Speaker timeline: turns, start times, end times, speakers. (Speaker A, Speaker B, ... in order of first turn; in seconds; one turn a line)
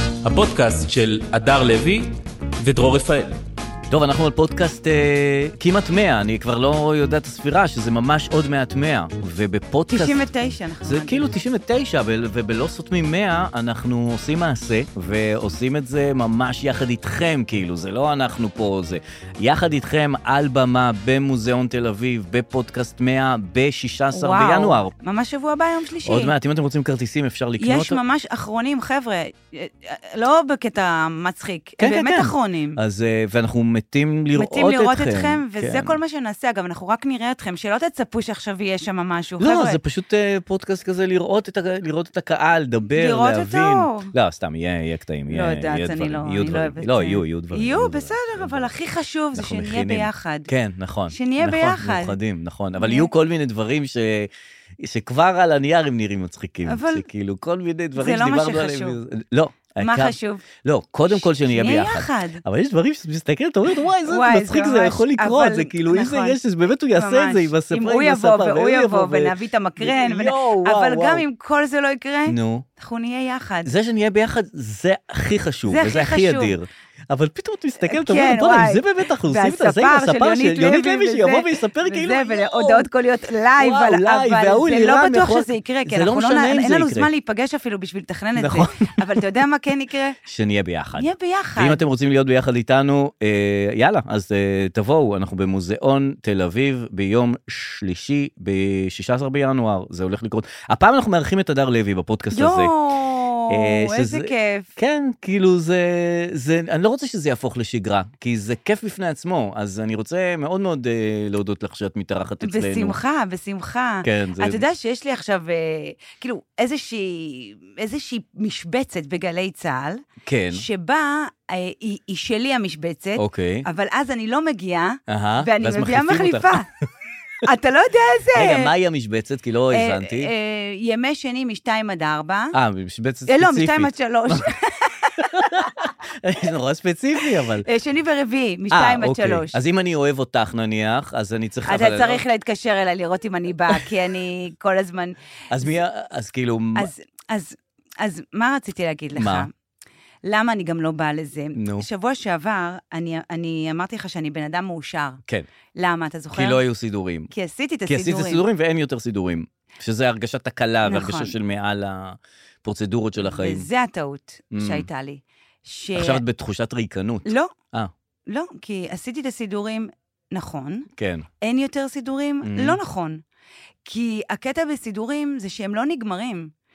Speaker A: 0.2-3.4
Speaker B: 3.9-10.3
Speaker C: 9.9-11.3
Speaker B: 10.8-24.9
Speaker C: 24.1-26.3
Speaker B: 26.1-28.0
Speaker C: 27.6-32.8
Speaker B: 31.8-36.0
Speaker C: 34.3-39.8
Speaker B: 39.4-48.7
Speaker C: 43.0-44.1
Speaker C: 45.3-50.5
Speaker B: 49.4-71.2
Speaker C: 51.1-52.2
Speaker C: 52.8-53.1
Speaker C: 56.7-57.0
Speaker C: 58.0-59.0
Speaker C: 59.8-60.4
Speaker C: 61.1-62.4
Speaker C: 64.0-66.4
Speaker C: 66.9-73.7
Speaker B: 72.3-72.7
Speaker B: 73.7-82.9
Speaker C: 75.7-76.5
Speaker C: 77.8-90.2
Speaker B: 83.6-87.1
Speaker B: 88.4-89.2
Speaker B: 90.3-102.7
Speaker C: 91.0-91.8
Speaker C: 102.3-104.7
Speaker B: 103.5-113.0
Speaker C: 112.4-126.7
Speaker B: 114.0-114.6
Speaker B: 120.2-120.6
Speaker B: 123.2-123.7
Speaker B: 125.1-126.7
Speaker C: 127.4-128.7
Speaker B: 128.3-130.3
Speaker C: 129.7-132.6
Speaker B: 132.5-134.5
Speaker C: 133.3-135.7
Speaker B: 135.2-137.7
Speaker C: 137.6-139.6
Speaker B: 138.7-142.2
Speaker C: 141.7-145.2
Speaker B: 145.5-146.9
Speaker C: 146.8-149.5
Speaker B: 149.2-149.5
Speaker C: 150.2-155.2
Speaker B: 151.6-151.9
Speaker C: 155.8-156.6
Speaker B: 156.3-157.3
Speaker C: 157.3-158.4
Speaker B: 157.9-163.7
Speaker C: 160.8-161.3
Speaker C: 163.2-166.2
Speaker B: 164.5-164.9
Speaker B: 165.9-167.9
Speaker C: 167.3-167.5
Speaker C: 168.3-170.9
Speaker B: 171.0-171.3
Speaker C: 171.4-173.2
Speaker B: 172.4-172.8
Speaker C: 173.8-176.5